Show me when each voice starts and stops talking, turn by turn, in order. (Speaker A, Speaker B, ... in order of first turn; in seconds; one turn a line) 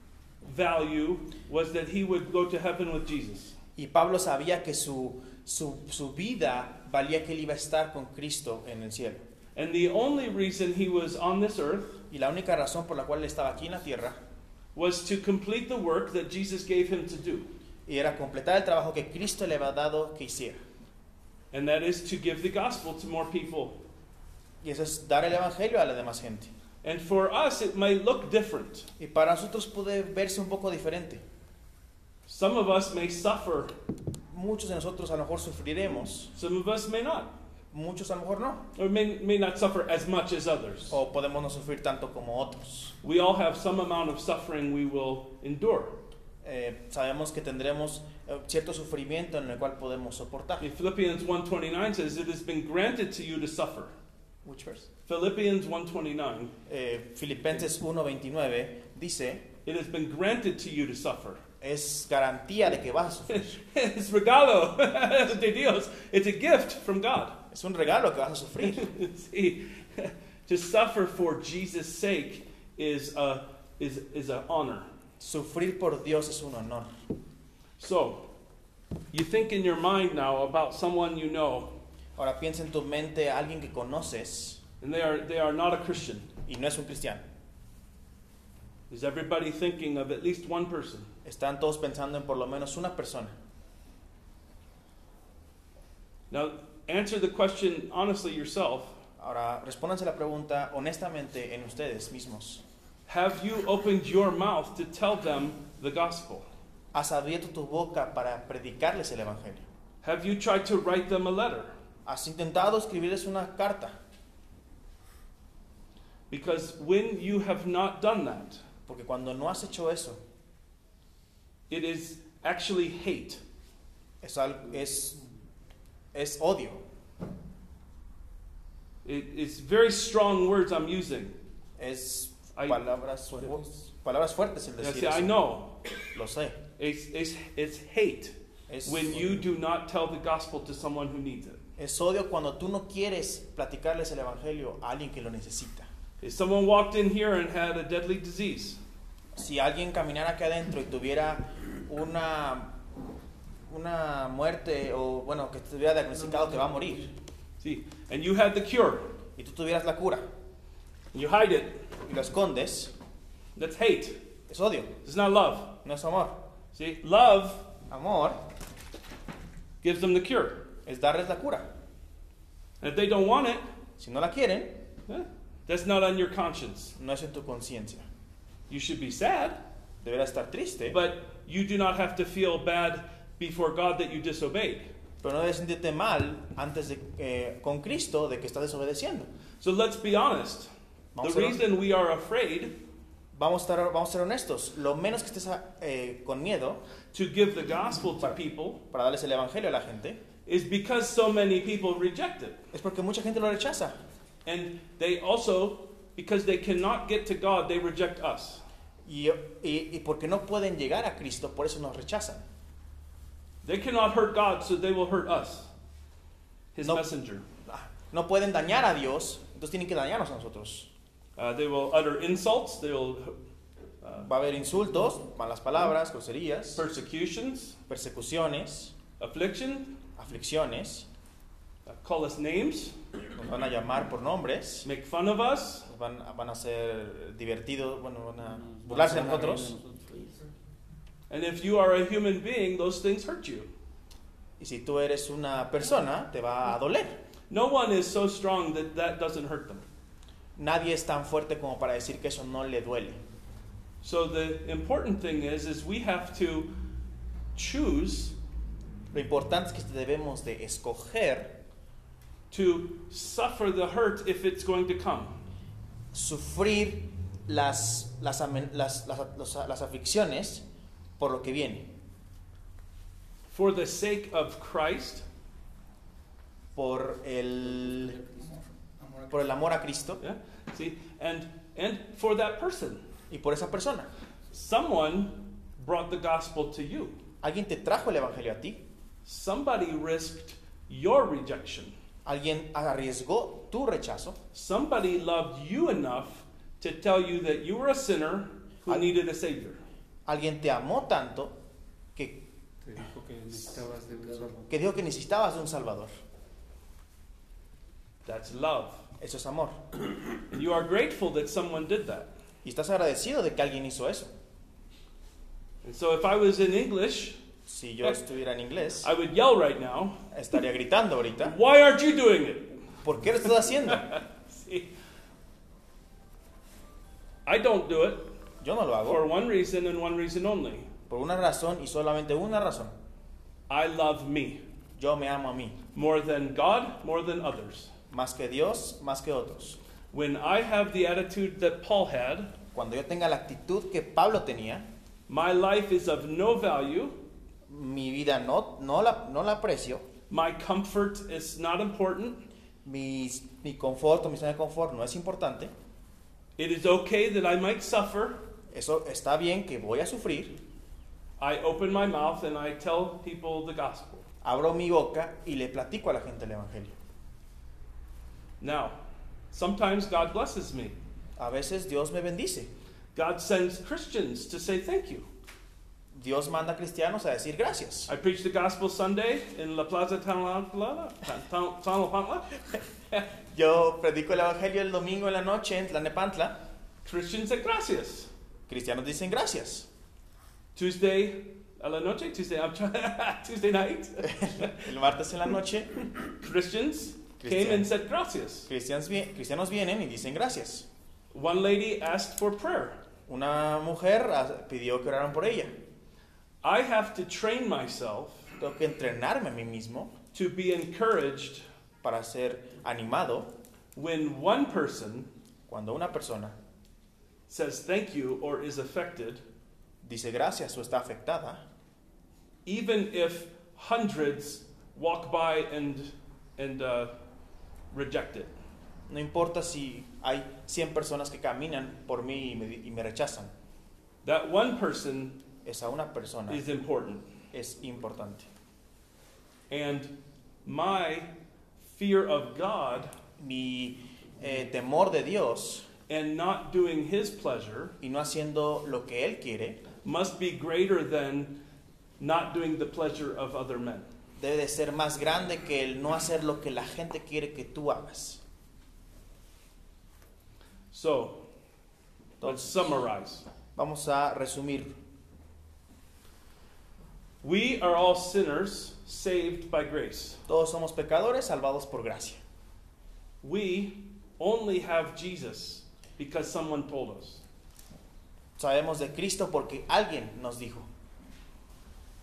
Speaker A: 0.4-3.5
Speaker B: 3.8-9.2
Speaker A: 9.5-12.0
Speaker B: 12.1-14.2
Speaker A: 14.7-17.5
Speaker B: 17.9-20.6
Speaker A: 21.5-23.8
Speaker B: 24.6-26.5
Speaker A: 26.8-28.9
Speaker B: 29.0-31.2
Speaker A: 32.3-33.7
Speaker B: 34.3-36.3
Speaker A: 36.4-37.4
Speaker B: 37.7-38.6
Speaker A: 38.7-41.0
Speaker B: 40.9-42.9
Speaker A: 43.0-46.0
Speaker B: 46.4-50.7
Speaker A: 50.6-53.9
Speaker B: 54.4-54.9
Speaker A: 55.1-56.5
Speaker B: 56.7-59.4
Speaker A: 59.6-61.4
Speaker B: 61.6-63.6
Speaker A: 63.3-67.4
Speaker B: 67.5-68.8
Speaker A: 68.6-74.9
Speaker B: 75.2-76.9
Speaker A: 77.8-78.3
Speaker A: 79.1-81.7
Speaker B: 82.2-84.6
Speaker A: 84.8-86.3
Speaker B: 86.5-87.2
Speaker A: 88.9-91.1
Speaker B: 91.2-93.3
Speaker A: 96.3-98.9
Speaker B: 99.2-102.6
Speaker A: 103.1-106.5
Speaker B: 106.9-109.7
Speaker A: 110.0-111.7
Speaker B: 112.0-114.0
Speaker A: 116.3-118.6
Speaker B: 118.9-120.2
Speaker A: 121.7-123.4
Speaker B: 124.2-125.2
Speaker B: 126.1-126.8
Speaker A: 129.0-131.3
Speaker B: 131.8-135.4
Speaker A: 132.6-132.8
Speaker A: 134.8-135.8
Speaker B: 136.1-136.6
Speaker A: 136.8-141.6
Speaker B: 138.7-139.5
Speaker B: 141.8-145.9
Speaker A: 146.2-148.8
Speaker B: 149.3-152.8
Speaker B: 153.7-157.1
Speaker A: 157.6-159.1
Speaker B: 159.4-160.3
Speaker A: 161.1-161.8
Speaker B: 162.0-162.9
Speaker A: 163.6-164.2
Speaker B: 164.5-164.9
Speaker A: 165.0-165.8
Speaker B: 165.8-166.4
Speaker A: 166.7-167.7
Speaker B: 167.9-168.4
Speaker A: 169.8-170.7
Speaker B: 170.8-171.7
Speaker A: 172.8-173.6
Speaker B: 174.0-174.8
Speaker A: 175.1-176.9
Speaker B: 177.0-178.1
Speaker A: 178.7-179.6
Speaker B: 180.0-181.0
Speaker A: 180.9-184.9
Speaker B: 185.2-189.3
Speaker A: 189.6-190.7
Speaker B: 191.1-191.6
Speaker A: 191.2-192.8
Speaker B: 193.3-196.8
Speaker A: 197.1-198.8
Speaker B: 198.9-200.2
Speaker A: 200.4-202.6
Speaker B: 202.7-204.0
Speaker A: 204.4-208.6
Speaker B: 209.0-212.4
Speaker A: 213.6-215.7
Speaker A: 216.7-217.4
Speaker B: 217.7-220.9
Speaker A: 221.4-223.4
Speaker A: 224.0-224.3
Speaker B: 224.2-226.8
Speaker A: 226.7-227.8
Speaker B: 227.9-228.9
Speaker A: 229.2-229.9
Speaker B: 230.2-231.1
Speaker A: 231.8-232.9
Speaker B: 233.3-234.9
Speaker A: 234.8-235.9
Speaker B: 235.9-239.8
Speaker C: 238.5-240.3
Speaker A: 241.3-243.7
Speaker B: 244.6-247.2
Speaker A: 247.5-249.8
Speaker B: 250.6-253.2
Speaker A: 254.0-256.7
Speaker A: 257.5-258.4
Speaker B: 259.1-261.6
Speaker A: 262.5-265.4
Speaker B: 266.1-270.6
Speaker B: 271.2-271.9
Speaker A: 273.5-275.2
Speaker B: 276.7-278.2
Speaker B: 279.3-280.2
Speaker A: 280.2-283.0
Speaker B: 283.3-284.1
Speaker A: 284.5-287.1
Speaker B: 287.4-288.8
Speaker A: 289.2-291.9
Speaker B: 292.2-294.4
Speaker A: 294.5-299.8
Speaker B: 300.2-301.6
Speaker B: 302.1-302.4
Speaker C: 302.8-304.7
Speaker B: 304.7-306.1
Speaker A: 308.2-309.0
Speaker B: 309.2-309.8
Speaker A: 310.5-312.3
Speaker B: 312.6-314.3
Speaker A: 315.8-317.4
Speaker B: 317.7-319.1
Speaker A: 319.0-320.2
Speaker B: 320.3-321.6
Speaker A: 321.4-322.9
Speaker B: 323.0-324.1
Speaker A: 323.9-324.9
Speaker A: 327.4-328.3
Speaker B: 328.6-329.2
Speaker A: 329.0-330.9
Speaker B: 331.1-332.9
Speaker A: 333.7-334.6
Speaker B: 334.9-335.8
Speaker A: 335.9-337.9
Speaker B: 338.1-339.8
Speaker A: 340.1-342.5
Speaker B: 342.7-344.9
Speaker A: 345.3-347.2
Speaker B: 347.7-350.0
Speaker A: 350.3-352.4
Speaker B: 352.8-355.7
Speaker A: 356.6-358.4
Speaker B: 358.7-360.6
Speaker A: 361.4-364.3
Speaker B: 364.4-366.9
Speaker A: 368.6-369.0
Speaker A: 369.5-370.9
Speaker B: 371.4-372.7
Speaker A: 373.1-375.3
Speaker B: 376.1-378.1
Speaker A: 378.1-383.3
Speaker B: 383.5-386.6
Speaker A: 387.0-388.3
Speaker B: 388.7-389.9
Speaker A: 390.7-394.8
Speaker B: 394.3-396.0
Speaker A: 396.2-398.7
Speaker B: 397.4-397.9
Speaker B: 398.7-400.9
Speaker A: 401.3-403.0
Speaker B: 403.3-405.7
Speaker A: 406.6-408.5
Speaker B: 408.6-410.1
Speaker A: 410.3-411.6
Speaker B: 412.0-413.5
Speaker A: 413.9-415.3
Speaker B: 415.7-416.6
Speaker A: 417.5-419.4
Speaker B: 420.0-421.6
Speaker A: 422.6-427.1
Speaker A: 427.9-428.5
Speaker B: 429.1-433.5
Speaker A: 434.2-435.4
Speaker B: 435.6-436.6
Speaker A: 436.5-437.2
Speaker B: 437.5-438.5
Speaker A: 439.7-440.1
Speaker A: 440.6-443.1
Speaker B: 443.4-445.9
Speaker A: 446.1-447.9
Speaker B: 448.0-449.8
Speaker A: 450.0-451.6
Speaker A: 452.2-454.1
Speaker B: 454.4-458.4
Speaker A: 460.9-461.4
Speaker B: 462.4-462.8
Speaker A: 462.4-463.4
Speaker B: 463.8-464.9
Speaker A: 467.4-470.4
Speaker B: 470.5-472.4
Speaker A: 473.4-477.4
Speaker B: 478.6-480.9